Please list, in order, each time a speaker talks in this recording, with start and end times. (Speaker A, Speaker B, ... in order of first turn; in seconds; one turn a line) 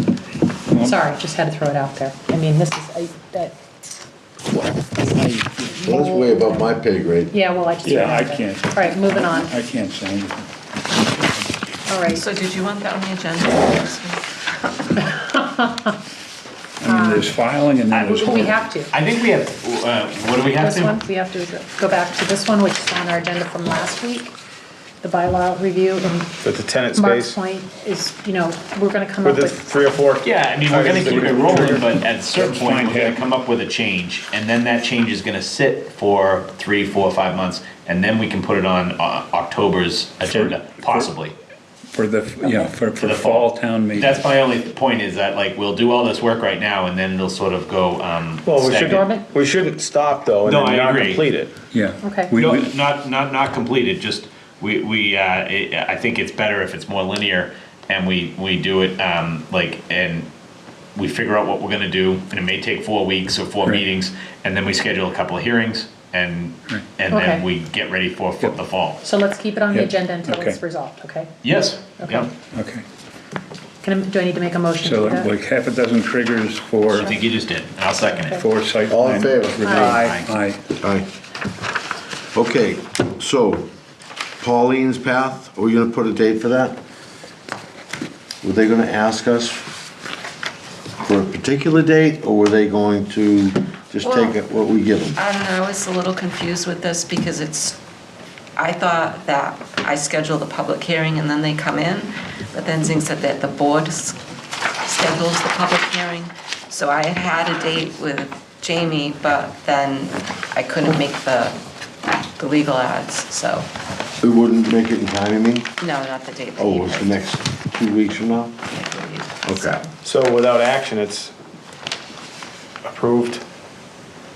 Speaker A: 0.7-1.0
Speaker B: 0.8-3.6
Speaker A: 5.0-5.8
Speaker B: 5.7-6.8
Speaker C: 5.9-7.4
Speaker B: 7.3-9.5
Speaker A: 7.8-10.5
Speaker A: 11.1-11.4
Speaker B: 11.9-12.3
Speaker D: 12.1-14.9
Speaker B: 15.1-15.9
Speaker A: 16.8-18.6
Speaker B: 16.9-17.3
Speaker E: 17.9-21.0
Speaker B: 17.9-18.9
Speaker B: 20.6-24.3
Speaker B: 25.0-26.4
Speaker F: 26.4-27.4
Speaker B: 26.9-29.8
Speaker F: 29.2-31.6
Speaker E: 30.2-41.4
Speaker A: 31.0-33.2
Speaker A: 40.3-41.1
Speaker A: 41.9-44.2
Speaker E: 43.0-49.1
Speaker F: 48.5-51.5
Speaker B: 48.7-49.2
Speaker E: 50.5-51.3
Speaker A: 51.7-52.7
Speaker B: 52.0-52.3
Speaker E: 52.4-60.3
Speaker E: 61.0-69.0
Speaker B: 67.1-67.5
Speaker B: 69.0-71.3
Speaker A: 69.7-70.6
Speaker E: 71.4-72.3
Speaker B: 72.0-72.3
Speaker A: 72.5-72.8
Speaker B: 73.8-75.3
Speaker A: 74.8-77.1
Speaker E: 77.0-78.4
Speaker A: 78.4-80.6
Speaker C: 78.9-80.0
Speaker B: 79.6-80.1
Speaker F: 79.8-80.2
Speaker E: 79.8-80.3
Speaker C: 80.8-81.1
Speaker C: 82.3-83.7
Speaker C: 84.4-86.8
Speaker C: 88.4-89.7
Speaker C: 91.0-95.2
Speaker D: 94.0-94.4
Speaker D: 95.2-97.8
Speaker D: 98.6-104.2
Speaker D: 104.8-111.6
Speaker D: 112.2-113.7
Speaker C: 114.2-115.8
Speaker D: 115.8-117.2
Speaker C: 116.6-118.6
Speaker D: 118.7-119.9
Speaker C: 119.4-119.8
Speaker F: 120.0-121.3
Speaker F: 122.8-123.4